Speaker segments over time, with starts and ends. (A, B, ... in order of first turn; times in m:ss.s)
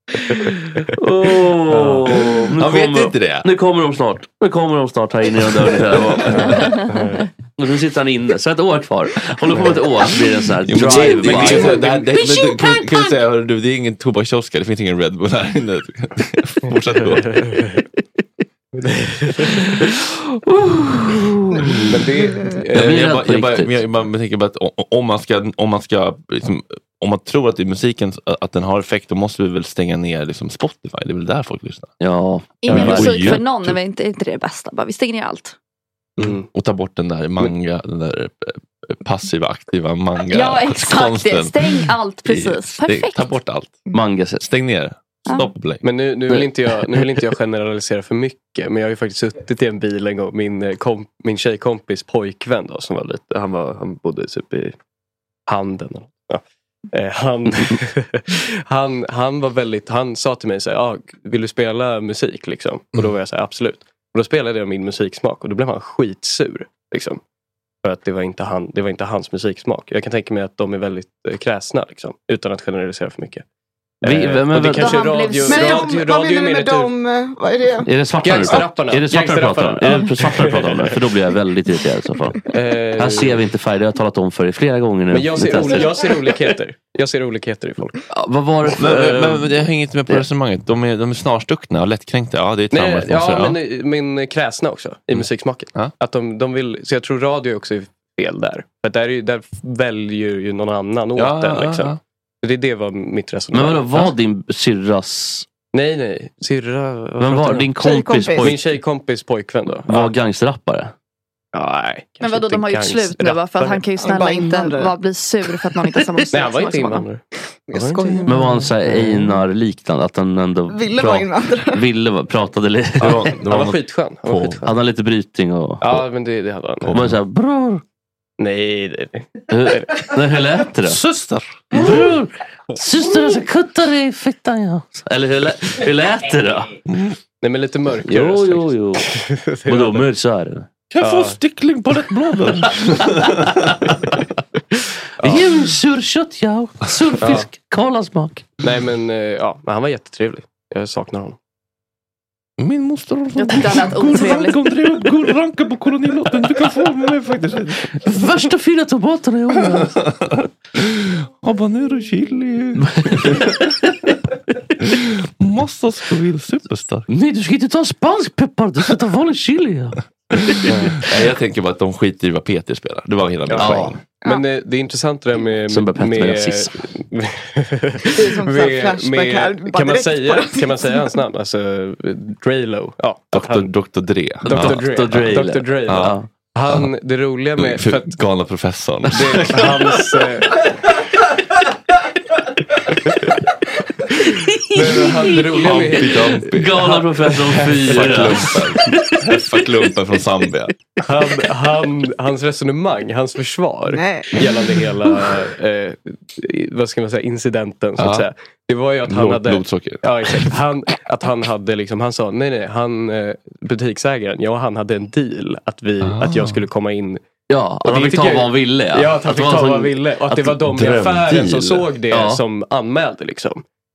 0:01.0-0:06.8 A
0:01.7-0:02.1 B
0:02.6-0:03.5 C
0:06.3-0:07.3 B
0:07.6-0:12.0 A
0:09.5-0:09.8 B
0:10.6-0:17.3 C
0:10.8-0:12.1 B
0:17.0-0:17.8 B
0:18.7-0:19.5 B
0:20.4-0:21.7 A
0:21.6-0:21.9 C
0:21.9-0:23.1 B
0:22.7-0:23.8 A
0:22.7-0:31.9 C
0:32.0-0:33.2 A
0:32.6-0:35.6 D
0:32.6-0:33.8 C
0:32.7-0:33.0 B
0:36.2-0:43.8 C
0:36.2-0:36.5 B
0:40.3-0:43.3 D
0:43.9-0:44.4 A
0:44.4-0:45.8 C
0:45.8-0:54.8 B
0:46.3-0:47.0 A
0:55.5-1:07.2 B
1:07.8-1:13.4 B
1:14.0-1:16.9 B
1:14.0-1:15.0 A
1:14.8-1:15.9 D
1:15.5-1:17.9 E
1:17.8-1:26.4 A
1:18.2-1:21.0 B
1:22.5-1:23.4 B
1:25.1-1:28.0 B
1:28.1-1:30.2 A
1:28.8-1:33.6 C
1:32.7-1:44.1 B
1:35.1-1:35.9 C
1:41.2-1:42.0 C
1:43.5-1:45.5 A
1:45.7-1:47.7 B
1:47.2-1:48.7 A
1:47.8-1:48.6 E
1:48.4-1:50.1 B
1:49.9-1:50.9 A
1:51.5-1:53.8 B
1:52.2-1:57.0 D
1:54.0-1:54.9 E
1:56.3-1:59.3 B
1:57.7-1:58.3 E
1:58.1-1:58.4 D
1:58.2-2:03.4 A
2:00.7-2:01.8 E
2:03.0-2:04.6 C
2:03.0-2:04.7 B
2:04.6-2:06.0 A
2:05.8-2:07.0 B
2:06.8-2:07.2 C
2:06.9-2:07.8 A
2:08.4-2:09.8 B
2:09.5-2:11.0 A
2:10.8-2:12.1 C
2:11.7-2:16.7 A
2:16.9-2:17.2 C
2:17.4-2:20.1 B
2:18.0-2:19.0 A
2:19.6-2:20.7 A
2:20.9-2:23.9 C
2:21.0-2:21.4 B
2:22.7-2:23.5 A
2:25.2-2:25.5 B
2:25.2-2:28.6 A
2:27.2-2:27.5 B
2:28.6-2:31.4 B
2:32.6-2:37.9 C
2:33.4-2:34.7 D
2:37.9-2:40.0 A
2:39.7-2:43.5 C
2:42.8-2:44.1 A
2:44.8-2:47.1 C
2:47.1-2:50.9 A
2:50.3-2:54.0 C
2:50.7-2:51.2 B
2:53.5-3:03.8 B
2:53.5-2:54.0 A
2:55.7-2:56.7 A
2:58.1-3:01.0 E
3:03.3-3:05.3 C
3:04.4-3:08.2 B
3:04.5-3:06.3 A
3:05.8-3:06.9 C
3:07.6-3:09.9 C
3:09.1-3:10.6 B
3:14.7-3:18.7 B
3:14.7-3:19.2 A
3:15.6-3:17.0 C
3:17.6-3:20.7 C
3:21.0-3:37.2 B
3:23.9-3:24.4 E
3:28.0-3:28.3 C
3:29.0-3:30.5 C
3:36.0-3:36.6 C
3:37.5-3:40.6 A
3:37.8-3:43.6 B
3:40.6-3:41.8 C
3:42.1-3:42.4 A